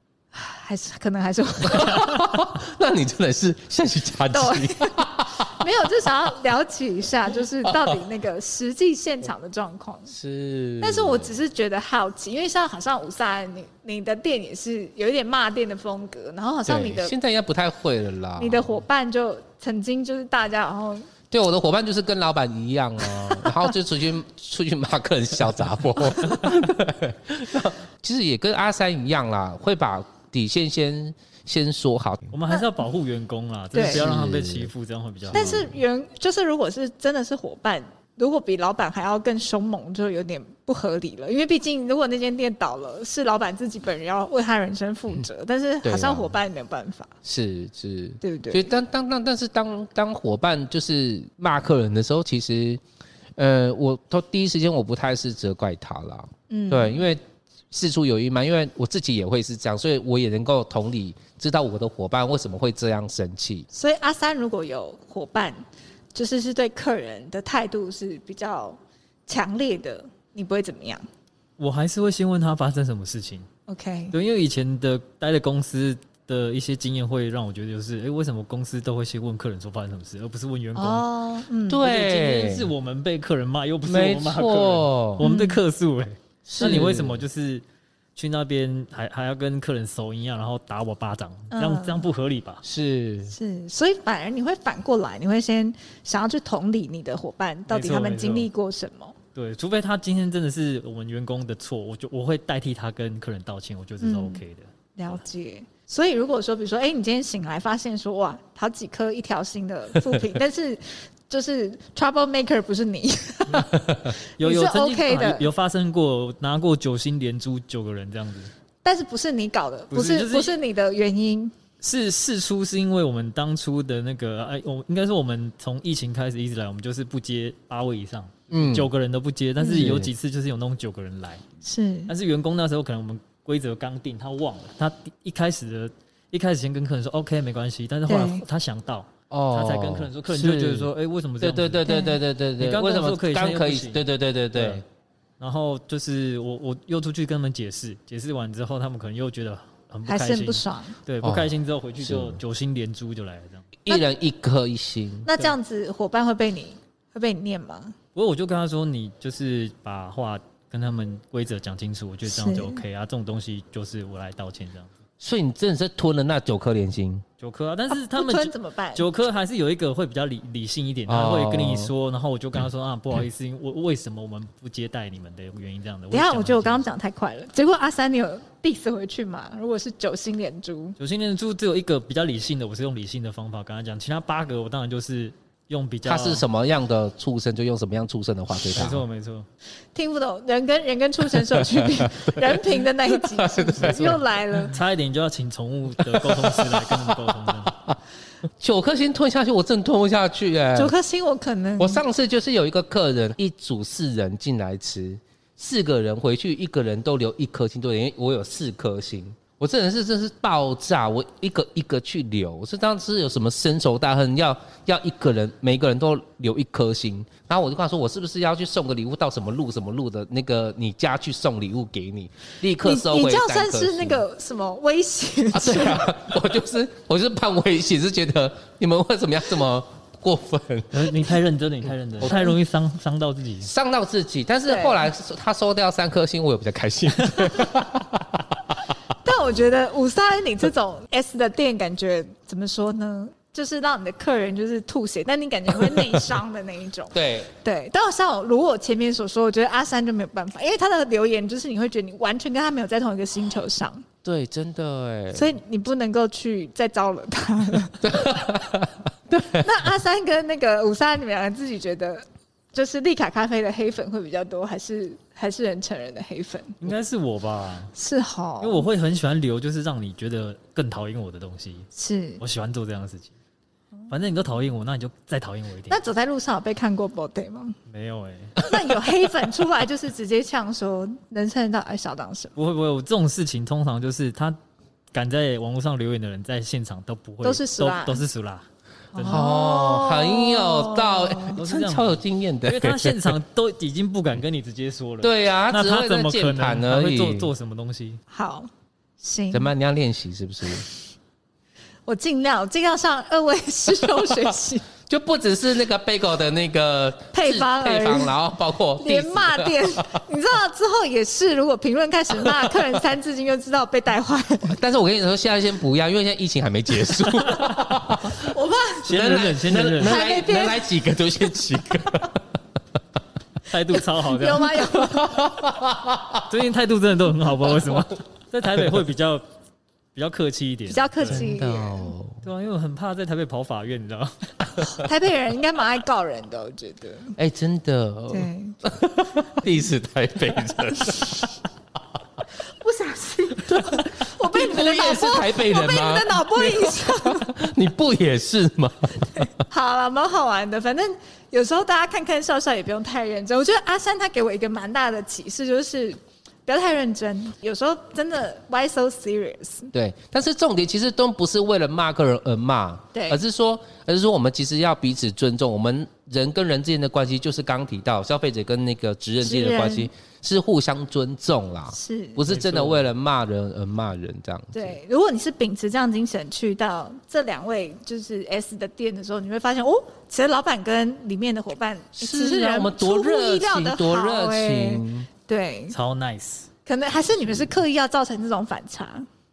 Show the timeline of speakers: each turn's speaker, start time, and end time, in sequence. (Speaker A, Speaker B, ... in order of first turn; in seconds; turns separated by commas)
Speaker A: 0.3-2.4, Speaker B: 1.6-5.5, Speaker A: 4.3-10.1, Speaker B: 7.6-8.0, Speaker B: 10.1-11.3, Speaker A: 10.8-17.1, Speaker B: 16.6-18.8, Speaker A: 18.4-21.1, Speaker B: 21.3-32.3, Speaker C: 32.3-35.7, Speaker A: 32.5-32.8, Speaker A: 33.7-34.0, Speaker B: 33.8-34.7, Speaker B: 35.3-35.7, Speaker A: 35.3-47.1, Speaker B: 45.8-46.3, Speaker B: 47.2-52.8, Speaker A: 48.2-48.7, Speaker B: 53.4-63.7, Speaker A: 56.5-57.0, Speaker A: 63.7-65.6, Speaker A: 66.1-71.0, Speaker C: 71.6-73.5, Speaker A: 73.7-74.1, Speaker C: 74.1-81.0, Speaker A: 80.8-81.9, Speaker B: 81.7-82.7, Speaker C: 81.8-87.6, Speaker B: 83.8-85.3, Speaker A: 85.2-85.6, Speaker B: 86.5-87.2, Speaker A: 86.6-86.9, Speaker C: 88.2-92.6, Speaker A: 91.5-92.0, Speaker B: 92.6-93.3, Speaker A: 93.3-99.2, Speaker C: 97.7-98.5, Speaker C: 99.3-104.7, Speaker A: 104.0-104.4, Speaker A: 105.0-115.5, Speaker C: 114.1-118.5, Speaker A: 118.8-121.5, Speaker C: 119.9-120.6, Speaker C: 121.8-131.4, Speaker B: 128.5-128.9, Speaker A: 129.6-129.9, Speaker B: 129.7-130.1, Speaker A: 131.6-132.1, Speaker C: 132.1-141.9, Speaker A: 138.1-138.4, Speaker B: 139.3-144.8, Speaker A: 141.8-142.2, Speaker C: 142.6-144.8, Speaker C: 145.4-153.7, Speaker A: 150.1-150.9, Speaker B: 151.2-152.4, Speaker B: 153.8-155.3, Speaker A: 155.2-157.9, Speaker C: 158.1-164.9, Speaker A: 162.3-162.8, Speaker B: 165.2-167.2, Speaker C: 167.4-176.8, Speaker A: 167.9-169.1, Speaker B: 171.1-171.9, Speaker A: 176.1-180.9, Speaker C: 181.0-186.4, Speaker B: 186.0-189.0, Speaker C: 188.7-189.5, Speaker A: 189.9-194.8, Speaker B: 191.4-194.7, Speaker C: 193.8-197.7, Speaker B: 196.0-197.9, Speaker B: 198.6-200.9, Speaker A: 200.7-202.0, Speaker B: 201.8-224.2, Speaker A: 222.8-226.1, Speaker B: 225.5-231.3, Speaker C: 230.9-233.7, Speaker B: 232.2-232.5, Speaker B: 233.6-238.5, Speaker A: 234.7-235.1, Speaker A: 239.2-254.0, Speaker B: 247.1-247.5, Speaker B: 254.2-255.5, Speaker A: 255.3-258.5, Speaker B: 258.0-259.8, Speaker A: 259.6-266.8, Speaker C: 266.8-267.9, Speaker A: 267.9-268.9, Speaker C: 268.6-273.3, Speaker A: 271.9-272.4, Speaker A: 274.1-274.5, Speaker C: 274.1-276.0, Speaker A: 275.9-277.8, Speaker C: 277.9-278.6, Speaker A: 278.6-282.5, Speaker C: 282.6-284.6, Speaker C: 285.1-288.6, Speaker A: 287.4-288.2, Speaker A: 289.1-291.6, Speaker B: 289.2-293.4, Speaker C: 291.5-298.2, Speaker B: 295.2-297.5, Speaker A: 298.3-298.7, Speaker A: 299.2-299.7, Speaker B: 299.5-300.8, Speaker A: 302.1-304.9, Speaker B: 305.1-310.0, Speaker A: 307.3-308.4, Speaker A: 308.9-314.8, Speaker B: 314.7-318.5, Speaker A: 318.4-319.1, Speaker C: 319.0-320.2, Speaker B: 319.1-322.4, Speaker A: 320.0-320.8, Speaker C: 323.7-324.8, Speaker A: 323.9-325.6, Speaker B: 325.0-326.4, Speaker C: 326.4-329.4, Speaker B: 327.7-328.0, Speaker C: 330.1-331.4, Speaker A: 330.9-332.1, Speaker B: 331.3-332.4, Speaker C: 332.4-334.8, Speaker A: 334.8-337.4, Speaker B: 337.4-341.6, Speaker A: 338.3-338.8, Speaker A: 342.8-347.5, Speaker B: 343.6-349.5, Speaker A: 349.2-359.9, Speaker B: 359.9-375.0, Speaker A: 363.1-363.4, Speaker A: 369.4-370.1, Speaker A: 371.9-372.4, Speaker C: 372.5-373.1, Speaker A: 374.7-385.9, Speaker B: 382.1-385.3, Speaker C: 385.9-386.7, Speaker A: 386.9-389.3